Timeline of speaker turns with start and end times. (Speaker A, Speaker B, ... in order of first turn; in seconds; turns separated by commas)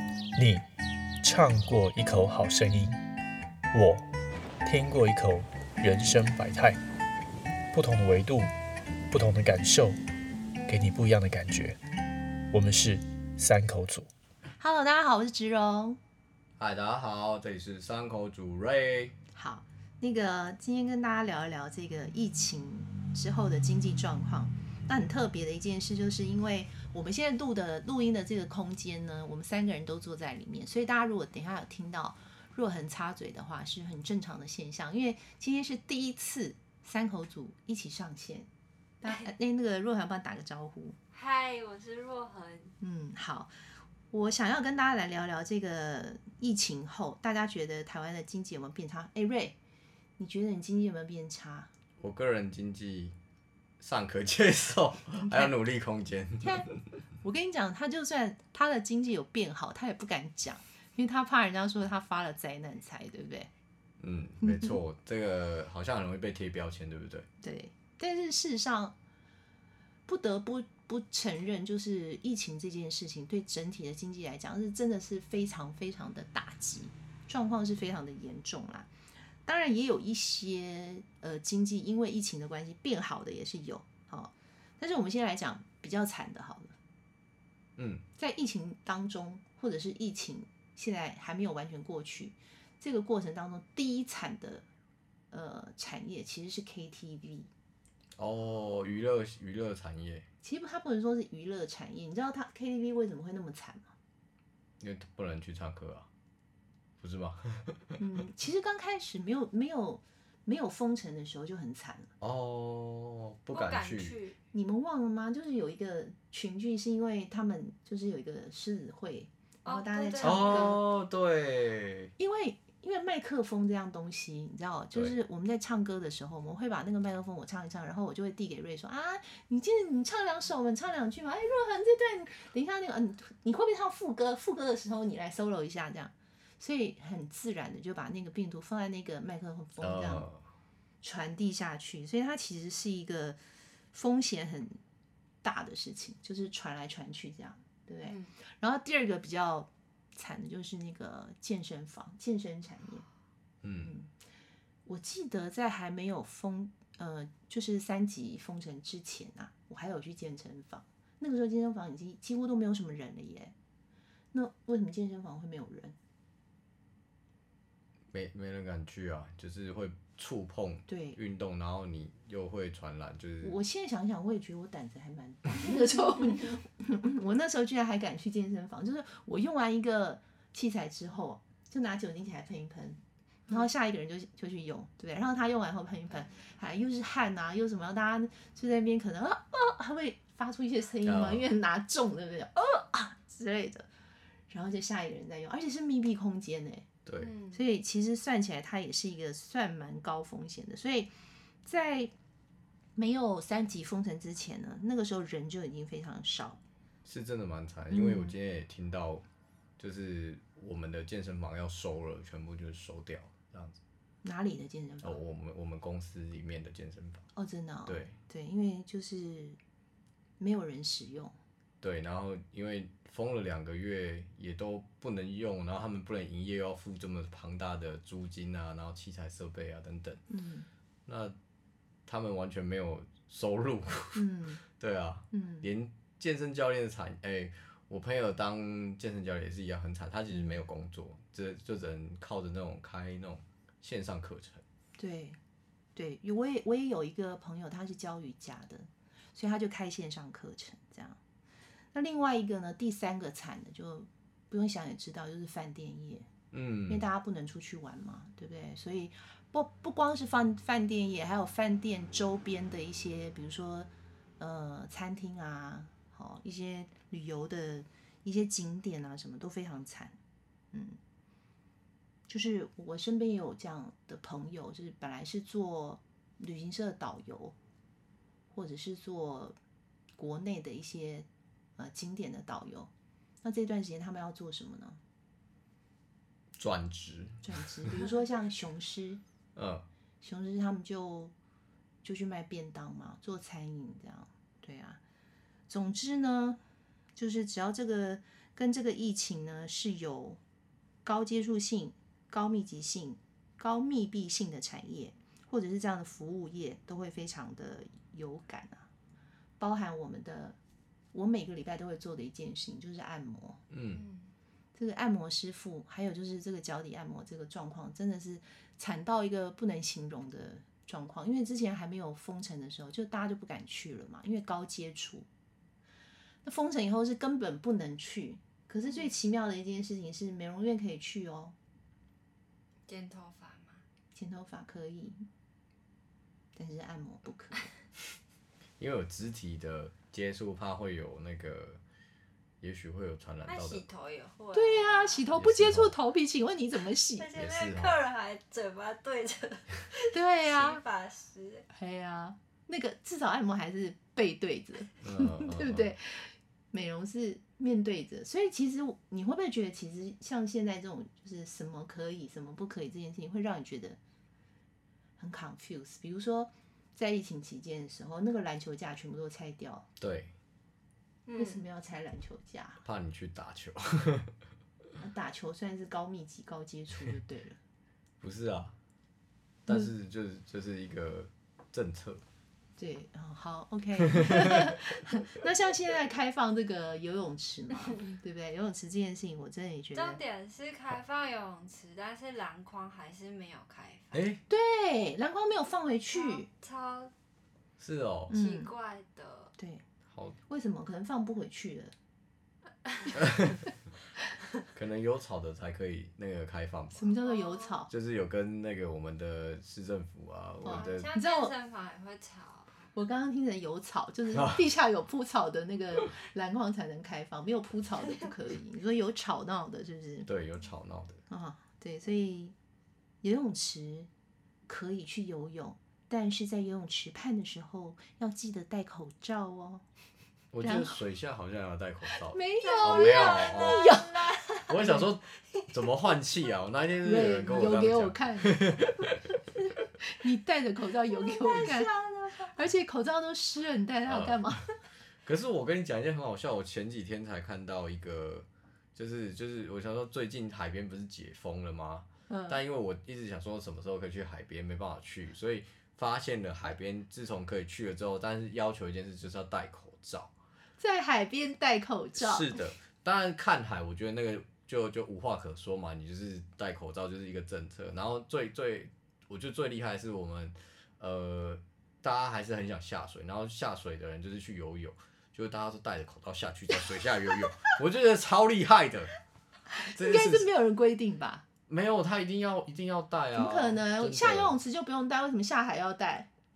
Speaker A: 0.3-0.7, Speaker A: 1.2-3.0, Speaker A: 3.7-4.0, Speaker A: 4.6-6.8, Speaker A: 7.7-8.5, Speaker A: 9.1-10.0, Speaker A: 10.7-11.8, Speaker A: 12.5-14.1, Speaker B: 14.6-16.0, Speaker C: 16.6-19.1, Speaker B: 19.3-38.5, Speaker B: 39.0-41.0, Speaker D: 41.1-42.8, Speaker B: 42.8-43.5, Speaker B: 44.1-49.5, Speaker B: 50.2-51.7, Speaker C: 52.0-53.1, Speaker C: 53.8-56.7, Speaker B: 55.2-55.5, Speaker B: 56.4-56.7, Speaker B: 57.2-63.5, Speaker C: 64.0-67.3, Speaker B: 64.4-64.8, Speaker B: 67.4-68.9, Speaker B: 70.1-78.9, Speaker B: 79.5-86.7, Speaker C: 87.8-88.0, Speaker B: 88.2-94.7, Speaker B: 95.3-97.5, Speaker C: 98.2-100.2, Speaker B: 100.4-103.9, Speaker C: 104.8-106.1, Speaker C: 107.0-108.0, Speaker B: 108.0-112.1, Speaker C: 112.2-114.2, Speaker D: 113.5-114.4, Speaker B: 114.5-120.8, Speaker D: 119.6-120.8, Speaker C: 120.2-122.1, Speaker B: 122.2-140.3, Speaker C: 139.8-140.4, Speaker B: 141.0-143.4, Speaker B: 143.9-144.8, Speaker B: 145.4-153.1, Speaker D: 148.0-148.3, Speaker C: 153.6-153.9, Speaker B: 153.8-154.1, Speaker B: 154.8-163.5, Speaker B: 164.3-165.9, Speaker C: 168.1-173.6, Speaker B: 170.9-171.2, Speaker B: 173.4-193.9, Speaker C: 191.0-191.4, Speaker B: 194.5-196.9, Speaker C: 197.1-197.3, Speaker D: 197.2-197.6, Speaker B: 197.5-201.1, Speaker B: 201.6-202.1, Speaker B: 202.9-206.6, Speaker C: 207.0-209.2, Speaker B: 207.9-208.3, Speaker C: 209.8-213.8, Speaker B: 214.2-215.2, Speaker C: 215.0-217.2, Speaker B: 217.3-219.6, Speaker C: 217.8-218.2, Speaker B: 220.4-221.3, Speaker C: 221.8-230.2, Speaker B: 230.3-230.7, Speaker C: 231.1-231.3, Speaker C: 232.1-244.6, Speaker B: 234.1-234.6, Speaker B: 235.3-235.7, Speaker B: 240.3-240.6, Speaker B: 245.0-245.4, Speaker B: 245.9-251.2, Speaker B: 251.9-256.3, Speaker C: 256.5-257.0, Speaker B: 256.9-270.1, Speaker B: 270.7-271.0, Speaker B: 272.3-277.5, Speaker B: 278.5-279.6, Speaker B: 280.2-282.9, Speaker B: 283.4-285.0, Speaker C: 286.5-287.9, Speaker B: 287.4-289.2, Speaker C: 289.6-289.9, Speaker B: 290.2-291.3, Speaker B: 292.0-295.0, Speaker B: 295.7-296.6, Speaker B: 297.1-300.4, Speaker B: 301.0-308.9, Speaker B: 309.6-310.6, Speaker B: 311.1-313.6, Speaker C: 313.7-314.0, Speaker D: 313.9-314.3, Speaker B: 314.8-325.3, Speaker B: 326.4-331.5, Speaker D: 332.9-333.8, Speaker B: 334.1-335.2, Speaker B: 336.5-337.7, Speaker C: 338.8-341.8, Speaker C: 342.6-343.8, Speaker D: 343.4-345.2, Speaker B: 344.5-347.3, Speaker C: 345.3-345.9, Speaker D: 347.1-351.7, Speaker C: 347.3-348.0, Speaker B: 350.1-350.8, Speaker B: 351.7-364.0, Speaker C: 355.0-355.9, Speaker B: 365.2-369.9, Speaker C: 370.0-370.3, Speaker B: 371.3-372.8, Speaker C: 372.8-374.3, Speaker B: 375.0-377.6, Speaker C: 378.2-378.7, Speaker C: 379.6-382.2, Speaker B: 382.8-390.2, Speaker C: 384.2-384.7, Speaker D: 389.9-394.2, Speaker C: 394.1-394.4, Speaker B: 394.5-396.5, Speaker D: 396.1-397.1, Speaker C: 397.8-398.3, Speaker B: 398.3-398.7, Speaker D: 398.3-399.5, Speaker B: 399.6-399.8, Speaker C: 400.1-400.4, Speaker B: 400.5-401.9, Speaker D: 402.9-403.1, Speaker C: 403.1-403.6, Speaker C: 404.7-407.1, Speaker B: 406.9-407.9, Speaker D: 407.2-407.8, Speaker C: 407.9-411.1, Speaker B: 410.6-411.5, Speaker D: 410.6-412.9, Speaker B: 412.9-420.3, Speaker C: 420.3-421.2, Speaker B: 421.3-422.5, Speaker B: 423.2-424.1, Speaker B: 424.7-429.8, Speaker C: 430.5-433.9, Speaker B: 430.6-431.0, Speaker B: 432.3-435.0, Speaker D: 432.6-434.6, Speaker C: 434.6-439.3, Speaker B: 437.0-438.8, Speaker B: 440.1-441.9, Speaker D: 441.1-442.5, Speaker B: 442.5-444.6, Speaker C: 444.1-444.6, Speaker C: 445.2-460.3, Speaker B: 452.3-452.6, Speaker B: 460.8-462.5, Speaker C: 462.1-479.1, Speaker B: 479.7-481.4, Speaker C: 479.9-480.5, Speaker C: 481.7-484.6, Speaker B: 483.3-486.3